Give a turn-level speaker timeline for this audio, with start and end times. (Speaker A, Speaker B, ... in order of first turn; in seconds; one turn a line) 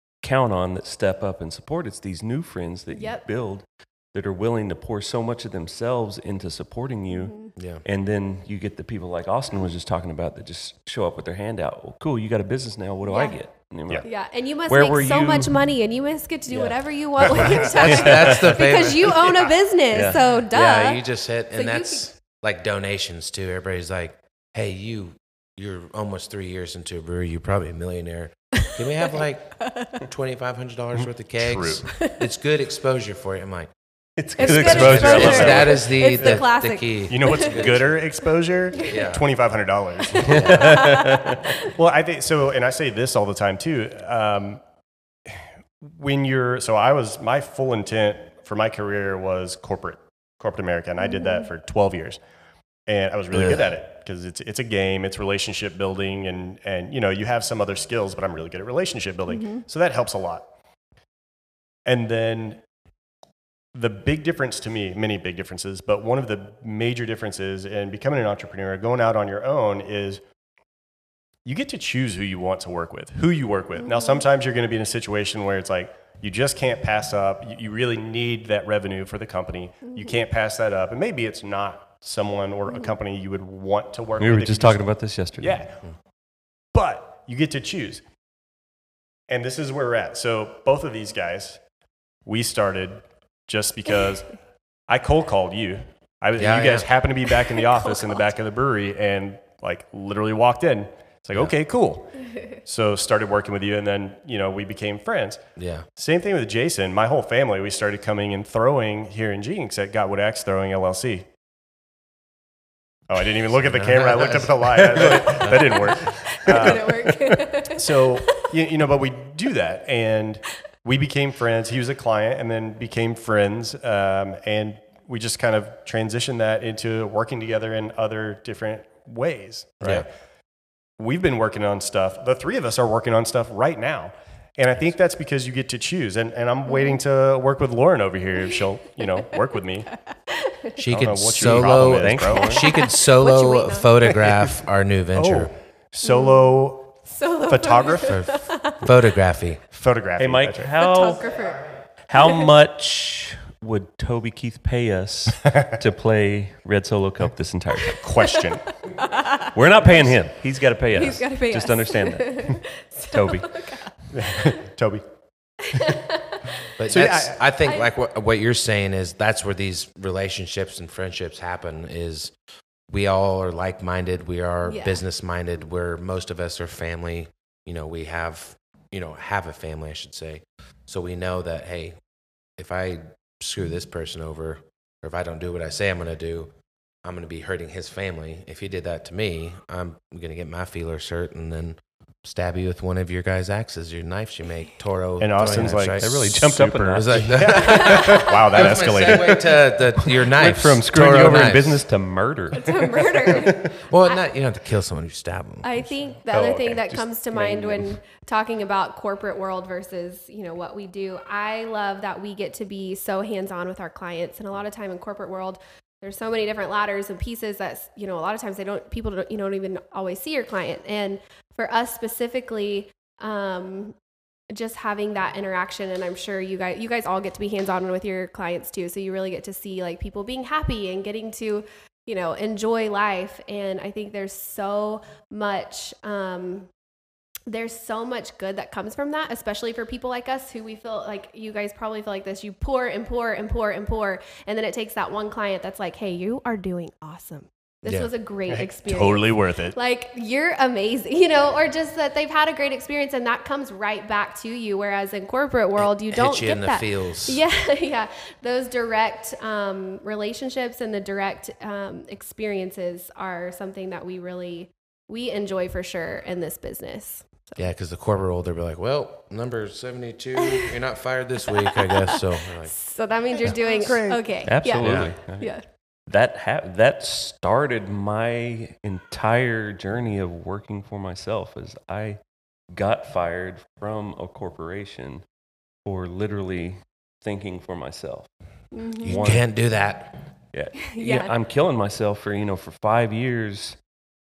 Speaker A: 0.2-14.1
Speaker B: 2.9-3.2
Speaker B: 7.1-7.5
Speaker C: 7.6-7.8
Speaker B: 13.0-13.4
Speaker B: 14.0-22.1
Speaker A: 14.7-15.6
Speaker A: 16.5-18.6
Speaker C: 17.4-19.5
Speaker A: 19.9-20.3
Speaker C: 20.5-33.7
Speaker B: 29.6-30.0
Speaker D: 31.0-31.9
Speaker B: 31.9-32.2
Speaker A: 34.2-35.9
Speaker C: 34.4-38.0
Speaker B: 34.4-37.6
Speaker D: 34.6-36.5
Speaker D: 37.1-40.6
Speaker B: 38.8-39.0
Speaker C: 38.8-39.3
Speaker B: 40.1-41.7
Speaker A: 40.2-41.5
Speaker C: 40.3-40.9
Speaker D: 41.6-44.6
Speaker D: 45.3-52.2
Speaker B: 51.0-51.5
Speaker D: 52.9-60.5
Speaker C: 53.3-53.6
Speaker B: 59.3-59.6
Speaker D: 61.9-62.6
Speaker D: 63.7-70.2
Speaker D: 71.5-84.8
Speaker B: 73.8-74.2
Speaker A: 84.2-85.6
Speaker D: 85.4-85.9
Speaker D: 86.7-88.0
Speaker D: 89.3-91.6
Speaker D: 92.2-105.4
Speaker C: 96.4-96.9
Speaker B: 97.8-98.2
Speaker C: 105.6-105.9
Speaker D: 106.0-111.3
Speaker D: 113.1-130.1
Speaker C: 113.5-116.7
Speaker B: 115.7-118.5
Speaker C: 129.8-130.1
Speaker D: 131.0-139.9
Speaker B: 136.7-137.0
Speaker B: 139.9-140.8
Speaker C: 140.8-145.5
Speaker D: 140.8-142.5
Speaker A: 141.4-142.7
Speaker B: 142.4-143.9
Speaker D: 144.1-144.4
Speaker D: 145.1-148.2
Speaker B: 146.0-148.9
Speaker C: 148.0-149.6
Speaker D: 149.7-150.7
Speaker A: 150.2-151.4
Speaker B: 150.8-151.7
Speaker A: 152.1-158.1
Speaker B: 152.2-152.5
Speaker B: 157.9-159.5
Speaker D: 158.0-158.8
Speaker A: 159.5-162.6
Speaker B: 160.9-164.5
Speaker A: 163.1-163.6
Speaker D: 164.1-165.0
Speaker B: 165.7-166.5
Speaker C: 166.8-172.3
Speaker D: 166.8-167.4
Speaker B: 167.7-167.9
Speaker C: 172.9-182.0
Speaker B: 174.7-175.0
Speaker C: 182.6-186.5
Speaker C: 187.0-196.2
Speaker D: 195.2-199.6
Speaker A: 196.0-198.1
Speaker C: 196.9-201.8
Speaker B: 197.6-198.3
Speaker A: 198.8-203.7
Speaker B: 202.5-204.2
Speaker C: 203.8-206.8
Speaker B: 205.6-224.0
Speaker A: 206.8-208.0
Speaker B: 224.5-236.7
Speaker B: 237.5-267.7
Speaker C: 247.8-248.1
Speaker D: 248.5-249.8
Speaker C: 255.8-257.4
Speaker C: 267.6-272.7
Speaker B: 270.4-270.7
Speaker B: 271.5-275.6
Speaker D: 273.8-274.2
Speaker A: 274.4-275.5
Speaker C: 274.8-275.1
Speaker A: 276.1-282.2
Speaker A: 282.7-285.2
Speaker A: 285.9-288.3
Speaker B: 288.7-289.2
Speaker C: 289.0-290.2
Speaker A: 289.1-289.5
Speaker A: 290.5-293.8
Speaker B: 290.8-291.3